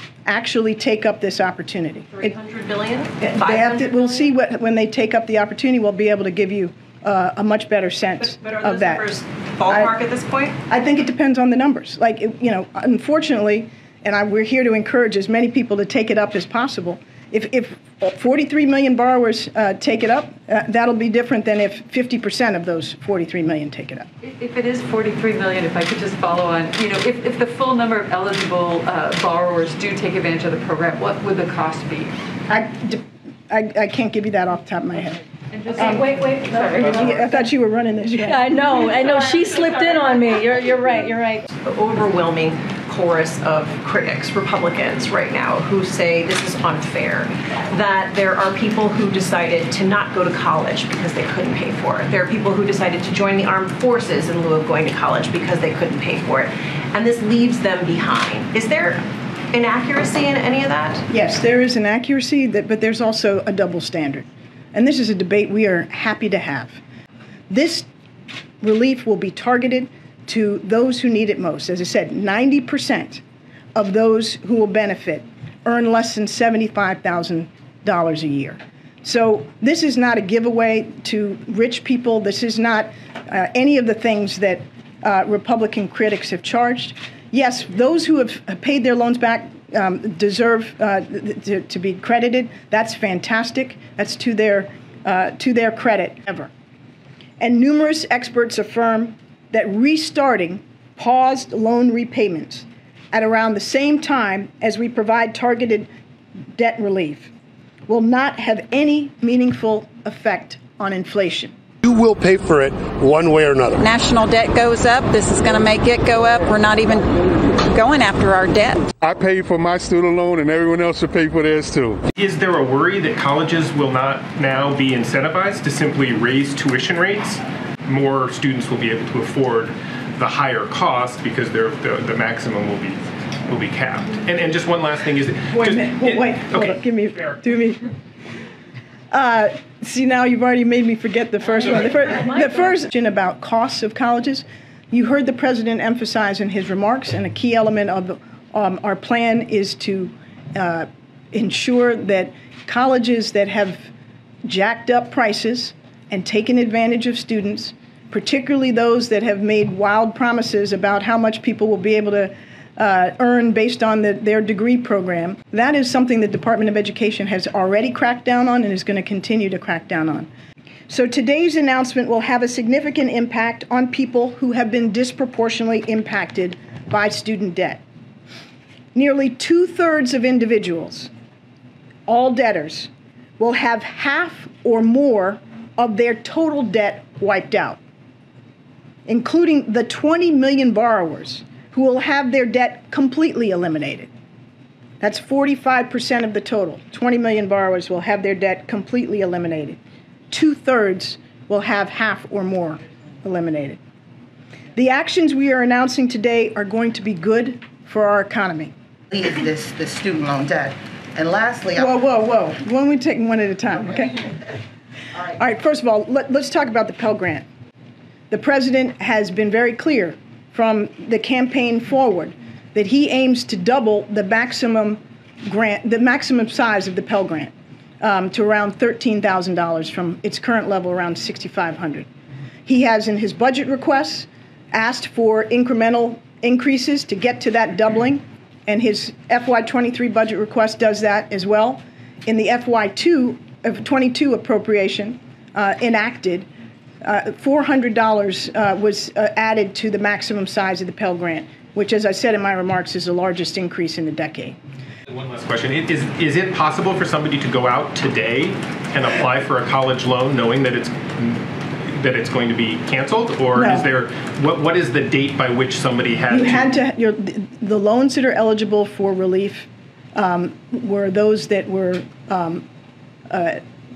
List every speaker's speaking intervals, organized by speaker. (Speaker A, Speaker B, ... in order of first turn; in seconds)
Speaker A: 0.2-2.3, 3.2-9.1, 9.7-9.9, 10.7-24.1, 32.5-35.2, 35.8-36.1, 36.9-38.5, 61.1-66.8, 67.5-67.9, 68.6-73.2, 73.8-96.5, 97.4-105.9, 106.6-107.3, 107.9-111.5, 135.5-137.8, 139.1-153.9, 154.4-170.3, 170.9-177.8, 178.9-181.1, 182.1-187.8, 189.1-194.1, 195.0-199.8, 200.3-203.8, 204.8-208.7, 211.7-214.3, 215.3-217.5, 218.3-232.1, 232.7-246.5, 247.0-254.6, 263.6-263.9, 266.3-272.7, 273.3-273.6
Speaker B: 2.1-4.3, 8.2-10.6, 41.6-59.0, 59.5-61.1
Speaker C: 24.2-32.1, 35.5-37.1, 38.6-40.3
Speaker D: 35.7-37.2, 38.3-41.4
Speaker E: 111.8-113.8
Speaker F: 113.8-117.1, 117.6-118.9
Speaker G: 119.0-122.0
Speaker H: 122.2-137.3, 255.1-266.7
Speaker I: 209.1-211.9